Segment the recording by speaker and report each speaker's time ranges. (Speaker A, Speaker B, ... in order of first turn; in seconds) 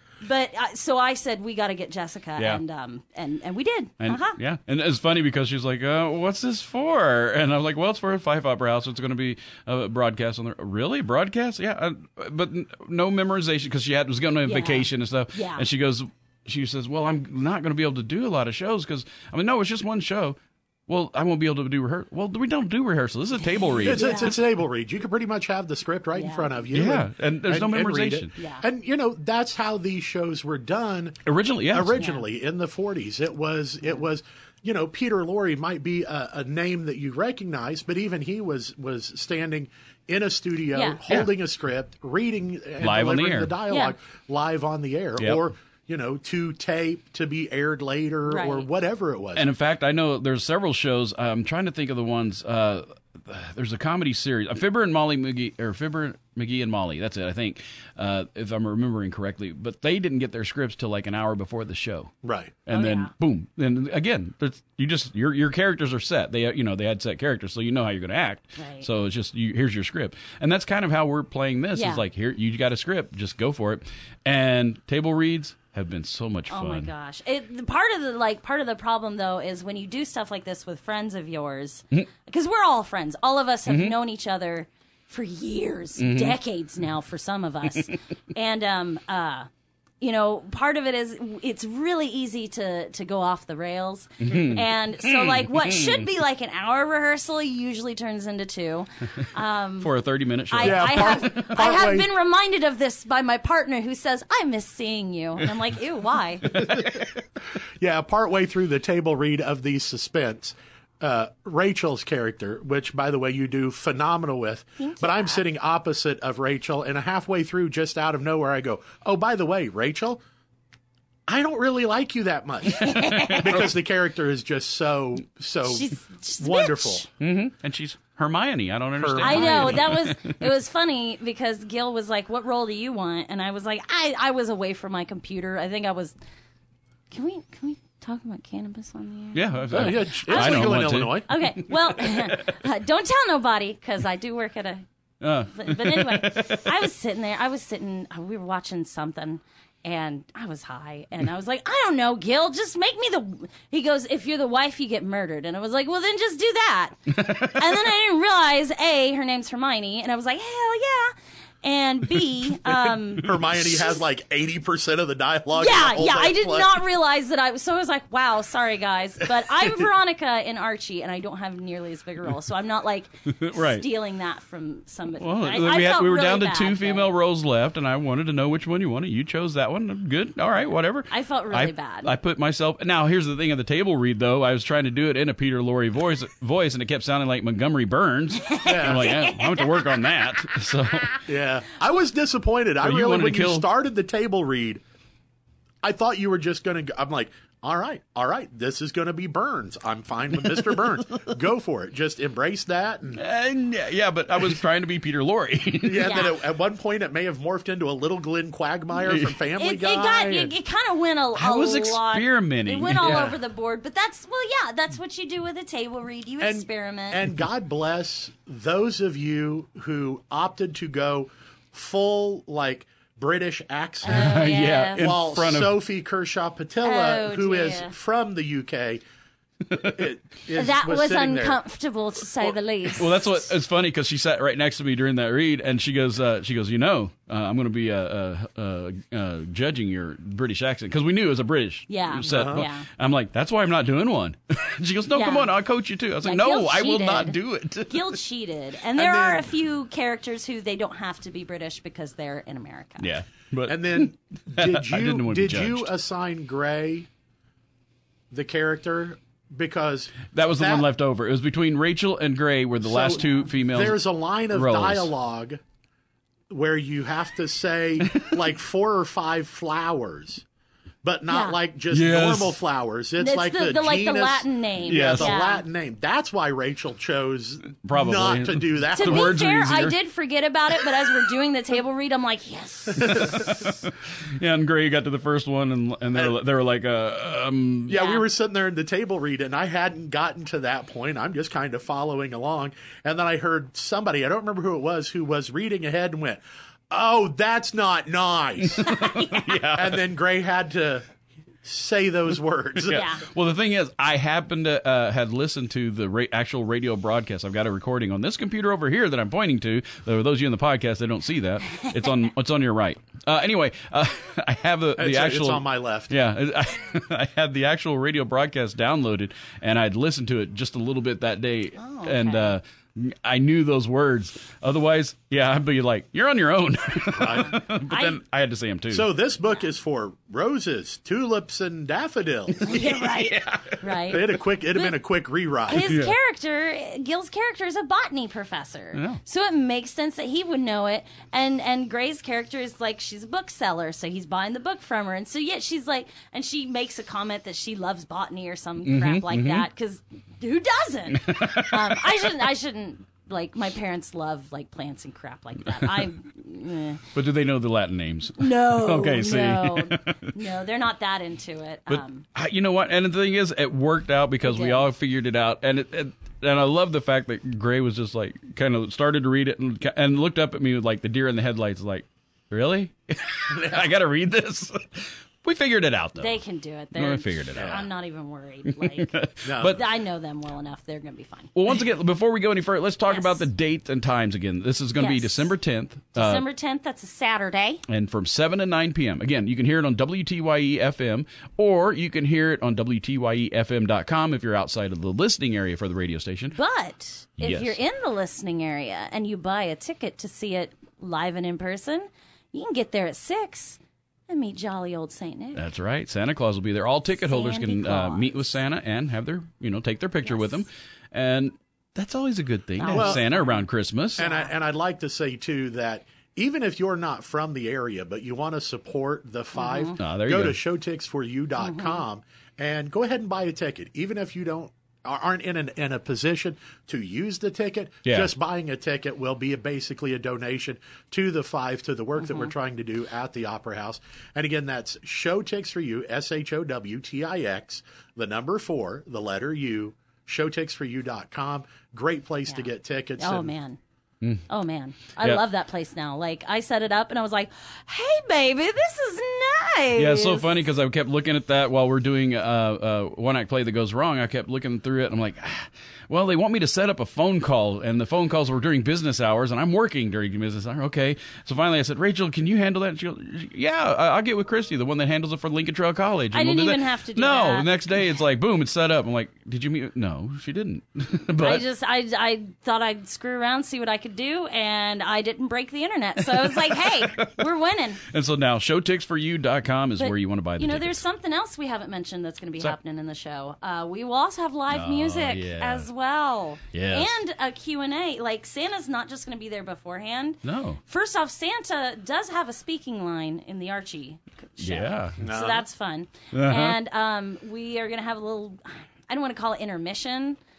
Speaker A: 0.2-4.4, 14.4-15.7, 23.7-24.4, 26.1-26.5, 28.4-28.6, 31.9-32.2, 43.7-44.0, 48.3-48.7, 62.7-63.1, 68.6-68.9, 71.8-72.0, 76.5-89.5, 90.0-99.9, 100.5-106.5, 114.8-115.4, 122.7-123.6, 125.7-127.1, 129.2-136.2, 137.1-144.8, 145.5-161.1, 161.6-164.0, 165.6-177.1, 181.1-182.1, 188.4-190.2, 206.0-206.4, 209.6-217.2, 224.0-225.2, 226.8-227.9, 230.5-233.4, 241.9-242.9, 245.1-245.5, 246.2-253.1, 271.3-271.6, 273.2-275.6, 278.9-283.6, 287.9-288.2, 298.9-299.5, 302.9-303.2, 311.7-312.0, 321.8-322.6, 327.8-328.2, 332.6-334.9, 335.7-357.1, 358.4-362.2, 364.4-364.9, 376.2-381.6, 383.1-383.4, 385.0-385.5, 386.1-387.8, 396.6-405.6, 407.2-408.6, 412.8-413.6, 414.2-414.5, 419.6-419.9, 421.6-422.0, 432.2-432.5, 443.2-443.8, 444.5-450.5, 466.3-467.7, 471.4-478.0, 480.0-500.4
Speaker B: 2.4-2.6, 4.0-24.3, 26.7-28.3, 31.3-32.0, 42.8-43.5, 49.4-62.1, 62.7-76.9, 83.7-84.0, 86.0-86.3, 94.2-96.1, 99.8-101.4, 106.5-107.0, 123.1-123.7, 127.2-130.4, 139.3-141.4, 142.0-142.4, 145.2-146.7, 157.2-157.6, 162.6-162.9, 173.3-173.9, 175.2-191.2, 192.8-193.7, 203.1-206.2, 209.1-209.4, 211.4-213.3, 224.1-225.8, 233.0-248.2, 253.0-255.9, 260.3-265.1, 268.0-268.4, 271.9-272.6, 274.9-275.3, 277.8-280.0, 283.0-288.0, 298.6-300.0, 302.9-329.1, 332.7-333.8, 335.8-336.1, 338.9-339.2, 348.9-349.7, 351.1-352.0, 355.7-356.0, 357.1-360.3, 361.9-376.4, 376.9-377.9, 378.7-379.8, 381.6-386.4, 387.9-396.6, 397.4-397.8, 405.6-414.2, 420.0-420.6, 449.9-471.6, 476.4-477.3, 478.1-481.0, 484.7-485.9, 486.7-487.1, 490.4-490.8, 494.6-495.2, 496.3-496.8
Speaker C: 23.8-49.5, 62.2-62.5, 100.6-102.1, 106.6-106.9, 107.8-120.2, 121.3-127.1, 129.0-129.9, 139.7-141.3, 163.2-166.8, 188.6-189.1, 191.2-194.8, 195.8-203.2, 205.8-210.5, 213.0-213.4, 216.4-229.0, 229.7-231.6, 242.2-242.6, 248.9-249.5, 253.7-257.1, 258.3-260.9, 262.8-265.6, 266.5-270.4, 271.0-279.4, 287.9-301.1, 301.6-303.0, 315.0-316.1, 327.1-327.6, 328.9-332.9, 334.1-335.9, 373.5-373.8, 377.6-377.8, 379.4-379.8, 412.9-413.2, 414.2-443.5, 495.2-495.6